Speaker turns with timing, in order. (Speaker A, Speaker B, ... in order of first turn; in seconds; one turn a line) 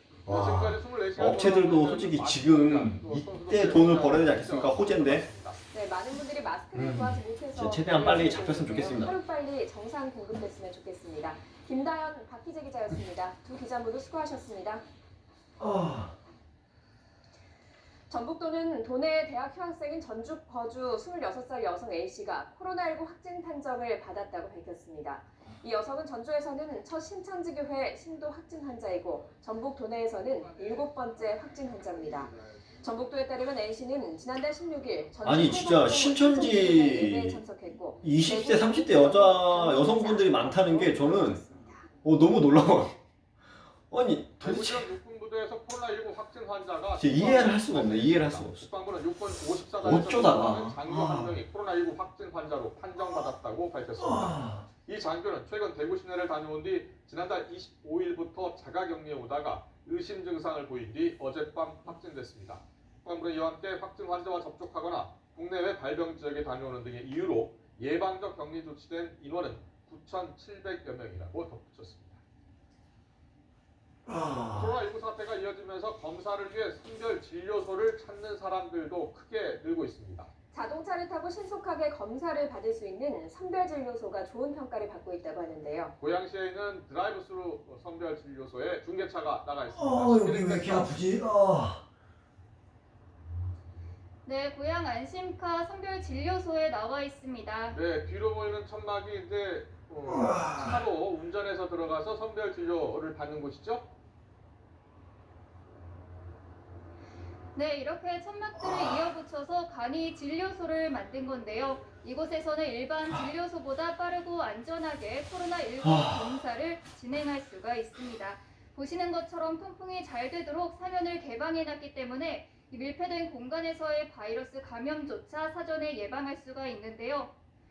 Speaker A: 0.3-5.3
Speaker B: 0.3-5.6
Speaker C: 5.7-14.8
Speaker A: 6.8-9.2
Speaker A: 15.6-16.2
Speaker C: 18.1-41.9
Speaker A: 35.2-37.4
Speaker A: 38.0-41.4
Speaker A: 42.0-43.0
Speaker A: 43.9-44.9
Speaker B: 44.4-72.2
Speaker A: 47.0-48.7
Speaker A: 49.8-51.4
Speaker A: 54.0-54.6
Speaker A: 74.1-74.7
Speaker B: 74.5-80.3
Speaker C: 80.5-85.9
Speaker B: 86.0-91.0
Speaker A: 89.8-91.9
Speaker D: 94.2-97.8
Speaker B: 97.7-103.9
Speaker D: 107.5-127.3
Speaker A: 115.8-116.2